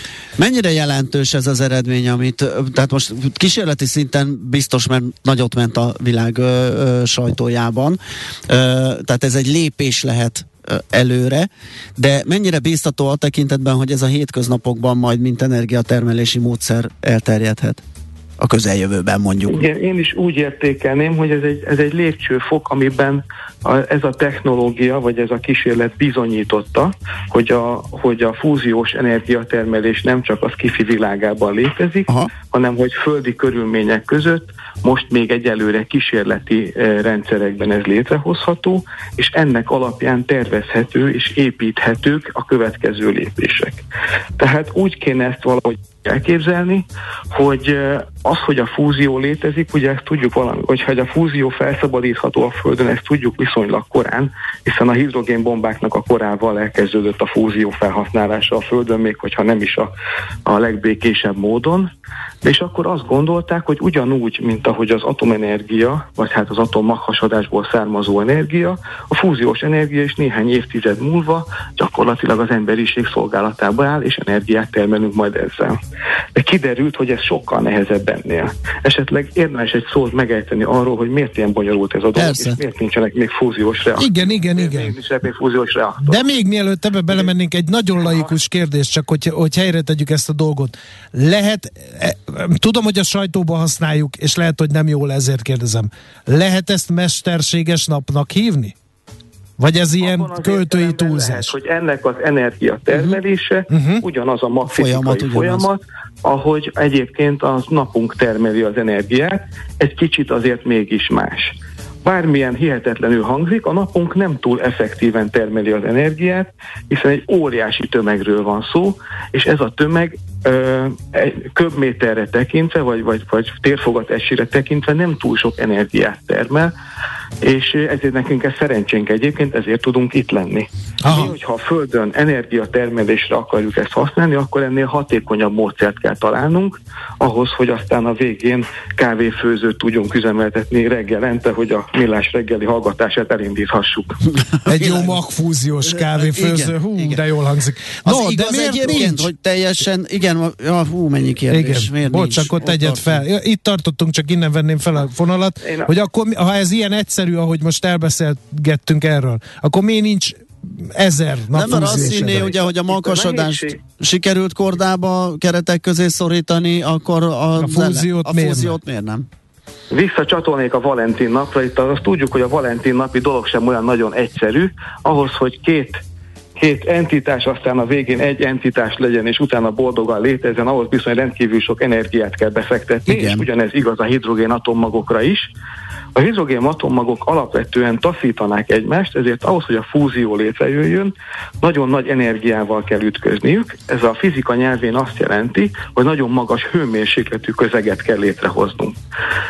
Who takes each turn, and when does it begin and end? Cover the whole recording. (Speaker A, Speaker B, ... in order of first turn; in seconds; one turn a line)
Speaker A: 0.4-17.8
Speaker A: 18.4-19.6
Speaker B: 19.5-43.8
Speaker B: 44.4-59.9
Speaker B: 60.4-61.9
Speaker B: 62.4-75.8
Speaker B: 76.3-86.3
Speaker A: 82.1-82.6
Speaker C: 84.0-84.9
Speaker C: 86.0-98.7
Speaker C: 99.6-101.5
Speaker B: 100.0-126.7
Speaker A: 102.9-103.2
Speaker C: 103.7-104.0
Speaker A: 104.7-105.7
Speaker B: 127.4-144.2
Speaker C: 131.0-131.3
Speaker C: 144.7-149.3
Speaker A: 144.7-145.2
Speaker A: 145.9-147.2
Speaker A: 148.0-153.2
Speaker C: 151.5-162.5
Speaker B: 155.6-155.9
Speaker A: 161.5-169.3
Speaker B: 161.7-163.8
Speaker C: 167.6-168.8
Speaker B: 169.9-176.0
Speaker B: 176.6-185.5
Speaker A: 183.1-183.5
Speaker B: 186.1-199.0